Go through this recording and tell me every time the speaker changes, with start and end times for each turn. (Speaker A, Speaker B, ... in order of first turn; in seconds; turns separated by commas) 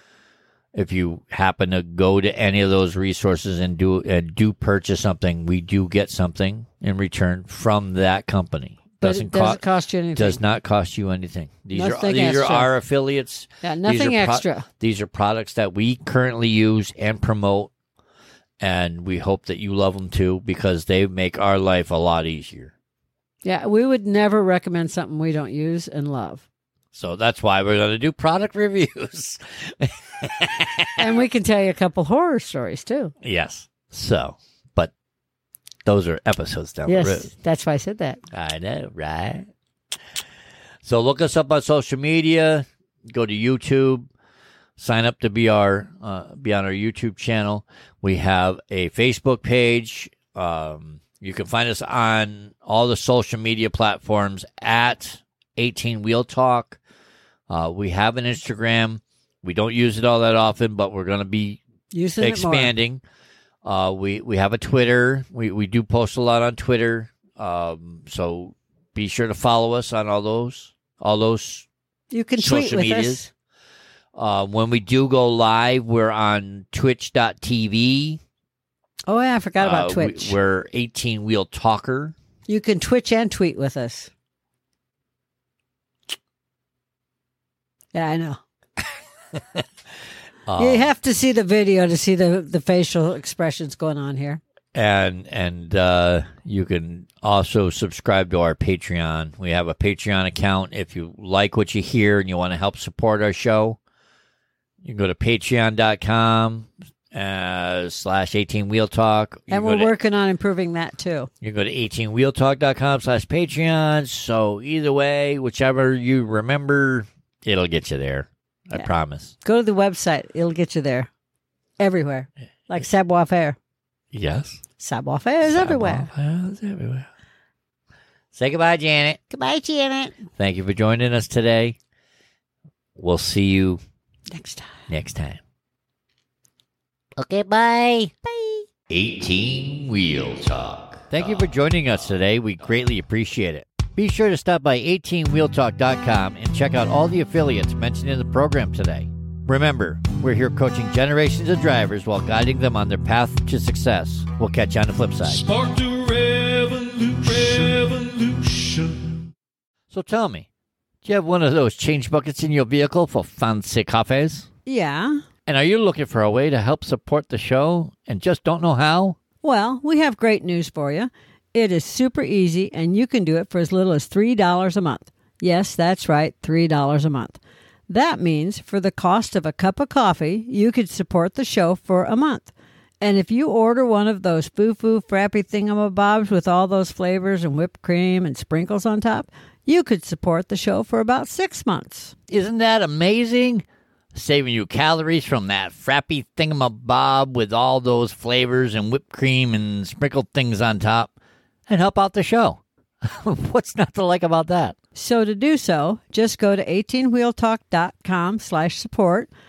Speaker A: 0.7-9.6, Speaker B: 9.0-10.4, Speaker A: 10.1-17.7, Speaker B: 11.7-12.7, Speaker B: 13.6-14.7, Speaker A: 18.6-22.7, Speaker B: 23.4-26.4, Speaker A: 26.9-31.0, Speaker B: 31.0-33.1, Speaker A: 33.2-34.9, Speaker A: 35.9-37.3, Speaker B: 36.9-38.2, Speaker A: 38.3-39.5, Speaker A: 40.8-44.1, Speaker A: 44.8-56.8, Speaker A: 57.5-61.6, Speaker B: 61.9-62.7, Speaker A: 62.2-63.0, Speaker A: 63.6-71.7, Speaker B: 72.1-73.3, Speaker A: 72.4-73.3, Speaker A: 74.1-78.2, Speaker B: 79.1-80.3, Speaker A: 79.6-82.1, Speaker B: 82.5-84.1, Speaker B: 87.9-88.4, Speaker A: 90.5-90.9, Speaker B: 90.6-94.4, Speaker A: 94.7-103.8, Speaker A: 104.8-109.9, Speaker B: 109.5-111.3, Speaker A: 111.4-119.3, Speaker B: 119.4-121.1, Speaker B: 121.8-123.6, Speaker A: 124.1-124.6, Speaker B: 124.8-126.1, Speaker A: 125.4-127.1, Speaker A: 128.3-129.2, Speaker B: 129.3-130.2, Speaker A: 130.4-131.8, Speaker A: 133.0-133.8, Speaker B: 134.3-134.7, Speaker A: 134.9-135.4, Speaker A: 137.2-138.1, Speaker A: 138.9-155.5, Speaker C: 155.5-157.9, Speaker A: 157.3-157.8, Speaker A: 159.9-160.5, Speaker A: 161.0-164.5, Speaker B: 164.7-165.2, Speaker A: 165.5-169.2, Speaker B: 169.4-182.5, Speaker B: 183.0-192.1, Speaker A: 192.3-201.1, Speaker A: 201.7-204.7, Speaker B: 204.9-209.3